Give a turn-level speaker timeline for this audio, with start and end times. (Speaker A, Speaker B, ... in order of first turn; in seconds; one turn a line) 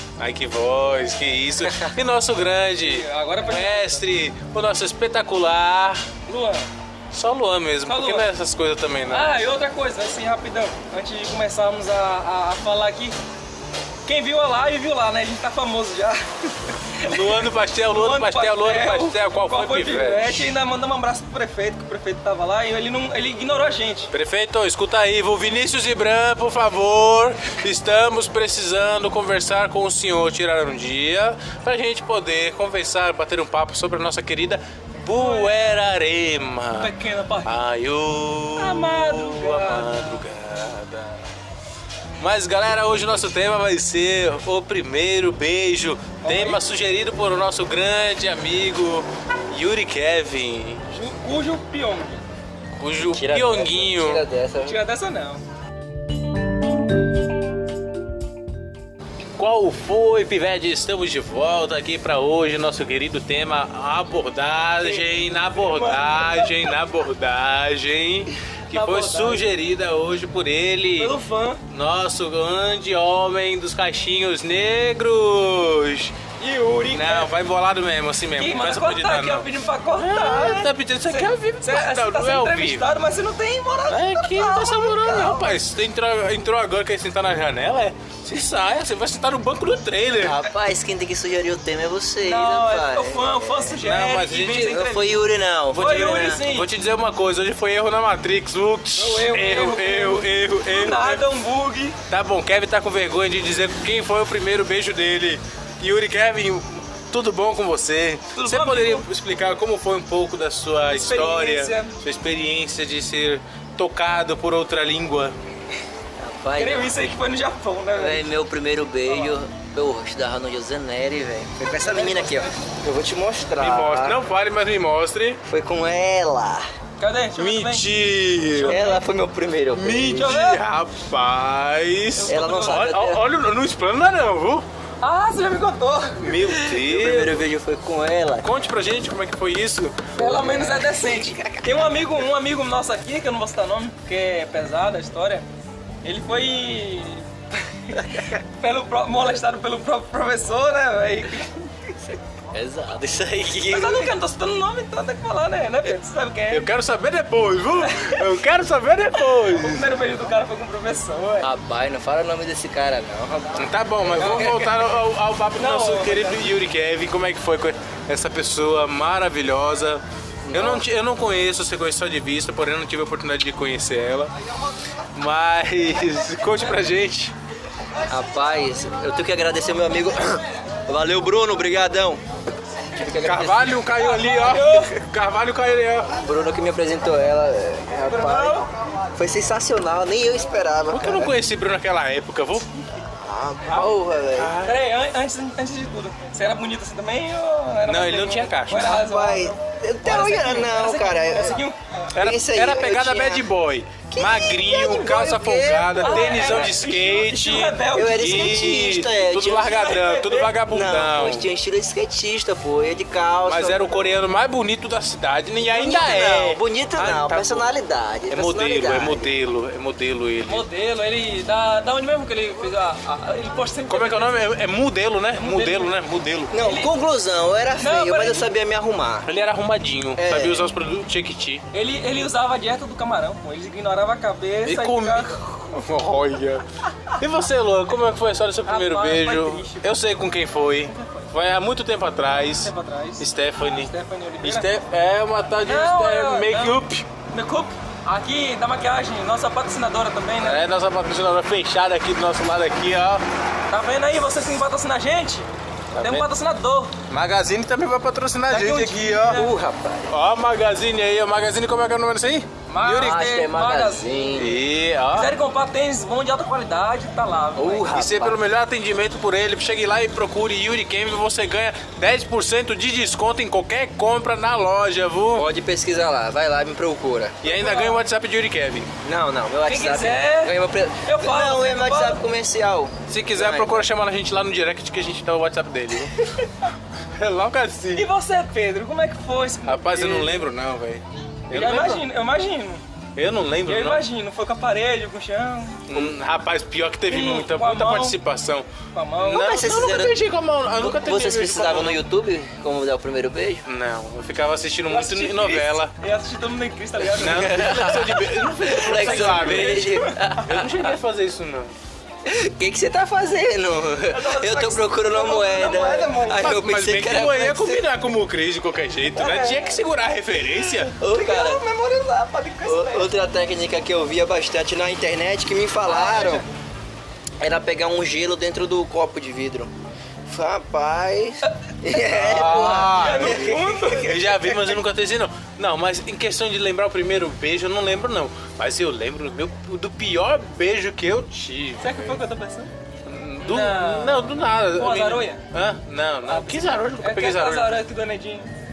Speaker A: 0.2-6.0
Speaker B: 2.7-4.0
Speaker B: 6.3-6.7
Speaker A: 7.1-9.3
Speaker B: 7.8-8.3
Speaker B: 9.1-13.2
Speaker B: 14.0-24.1
Speaker A: 17.0-20.5
Speaker A: 24.1-36.9
Speaker B: 35.1-35.7
Speaker B: 36.8-37.5
Speaker A: 37.4-41.3
Speaker B: 38.6-40.2
Speaker A: 42.2-50.8
Speaker B: 46.2-46.6
Speaker B: 50.9-52.2
Speaker A: 52.8-54.2
Speaker C: 53.1-54.8
Speaker B: 54.6-55.4
Speaker A: 59.4-71.2
Speaker B: 64.8-66.7
Speaker B: 68.7-69.4
Speaker B: 71.0-71.6
Speaker A: 71.7-76.1
Speaker B: 76.4-77.3
Speaker A: 76.9-82.9
Speaker B: 78.4-85.4
Speaker A: 83.9-90.5
Speaker C: 90.2-93.3
Speaker B: 92.2-95.2
Speaker A: 93.8-94.8
Speaker C: 94.7-96.4
Speaker B: 95.7-96.7
Speaker A: 95.7-101.2
Speaker B: 98.9-102.0
Speaker A: 102.1-115.3
Speaker B: 108.3-109.0
Speaker B: 110.9-112.0
Speaker C: 116.2-117.0
Speaker B: 116.5-118.3
Speaker C: 117.9-124.2
Speaker B: 121.8-122.6
Speaker A: 123.6-125.4
Speaker C: 125.5-126.6
Speaker B: 127.0-127.9
Speaker A: 127.4-128.9
Speaker B: 128.6-129.0
Speaker C: 128.6-130.4
Speaker A: 129.7-134.6
Speaker B: 130.2-130.6
Speaker B: 132.2-133.0
Speaker C: 132.2-133.2
Speaker B: 135.0-136.4
Speaker A: 136.2-137.4
Speaker C: 136.7-138.5
Speaker A: 138.4-140.1
Speaker B: 140.2-145.5
Speaker C: 140.2-141.9
Speaker B: 146.0-151.6
Speaker C: 152.5-154.1
Speaker B: 153.7-156.7
Speaker A: 156.5-160.1
Speaker B: 157.7-158.3
Speaker B: 159.3-161.5
Speaker C: 161.4-163.6
Speaker A: 163.6-174.3
Speaker B: 164.2-164.7
Speaker B: 165.6-166.5
Speaker C: 170.5-170.8
Speaker A: 175.1-177.3
Speaker C: 178.1-182.2
Speaker C: 182.9-183.9
Speaker A: 183.1-186.1
Speaker B: 183.9-184.9
Speaker C: 186.1-191.3
Speaker B: 188.2-188.6
Speaker A: 190.9-192.7
Speaker C: 193.2-194.5
Speaker A: 193.7-194.8
Speaker B: 194.6-201.8
Speaker A: 197.8-198.9
Speaker C: 198.8-201.6
Speaker A: 202.1-211.5
Speaker C: 202.1-203.5
Speaker C: 204.1-206.6
Speaker B: 206.0-208.4
Speaker C: 207.9-209.8
Speaker B: 209.6-210.5
Speaker C: 210.7-213.9
Speaker A: 213.4-217.7
Speaker C: 215.7-219.3
Speaker A: 218.3-220.7
Speaker B: 220.5-224.5
Speaker A: 223.9-226.5
Speaker B: 225.3-226.0
Speaker C: 226.5-229.3
Speaker B: 226.5-226.9
Speaker B: 227.8-228.5
Speaker A: 229.2-231.6
Speaker C: 230.2-230.7
Speaker B: 231.7-235.4
Speaker A: 234.6-247.1
Speaker B: 238.7-239.8
Speaker B: 240.9-241.3
Speaker B: 242.5-244.8
Speaker B: 245.7-246.8
Speaker B: 247.3-250.6
Speaker A: 250.4-253.2
Speaker B: 253.7-256.9
Speaker A: 255.9-256.2
Speaker A: 257.1-259.4
Speaker B: 258.5-259.5
Speaker C: 259.3-260.1
Speaker A: 260.1-263.2
Speaker B: 262.7-264.4
Speaker C: 262.9-264.6
Speaker A: 264.3-265.3
Speaker B: 265.1-267.9
Speaker C: 267.6-268.4
Speaker A: 267.9-275.5
Speaker C: 275.3-277.4
Speaker A: 277.4-278.9
Speaker B: 277.4-278.0
Speaker C: 279.0-283.9
Speaker B: 279.6-282.2
Speaker A: 283.1-286.2
Speaker A: 287.1-288.1
Speaker B: 287.9-290.4
Speaker A: 289.6-292.0
Speaker B: 291.5-292.8
Speaker A: 293.1-294.1
Speaker B: 293.6-296.1
Speaker A: 295.9-298.7
Speaker B: 297.1-298.2
Speaker B: 298.9-299.5
Speaker A: 299.2-302.0
Speaker C: 299.3-300.2
Speaker C: 300.7-303.6
Speaker A: 303.6-305.9
Speaker B: 304.9-310.3
Speaker C: 307.0-310.9
Speaker A: 307.2-311.7
Speaker C: 312.2-317.9
Speaker B: 314.1-316.5
Speaker A: 316.3-320.9
Speaker B: 319.1-319.6
Speaker C: 321.0-321.6
Speaker B: 321.0-323.1
Speaker C: 322.6-326.4
Speaker B: 325.9-326.4
Speaker C: 327.4-329.7
Speaker C: 330.2-333.9
Speaker A: 331.9-342.1
Speaker B: 332.3-334.6
Speaker B: 341.8-342.7
Speaker A: 343.1-347.8
Speaker B: 343.4-345.4
Speaker B: 346.3-348.5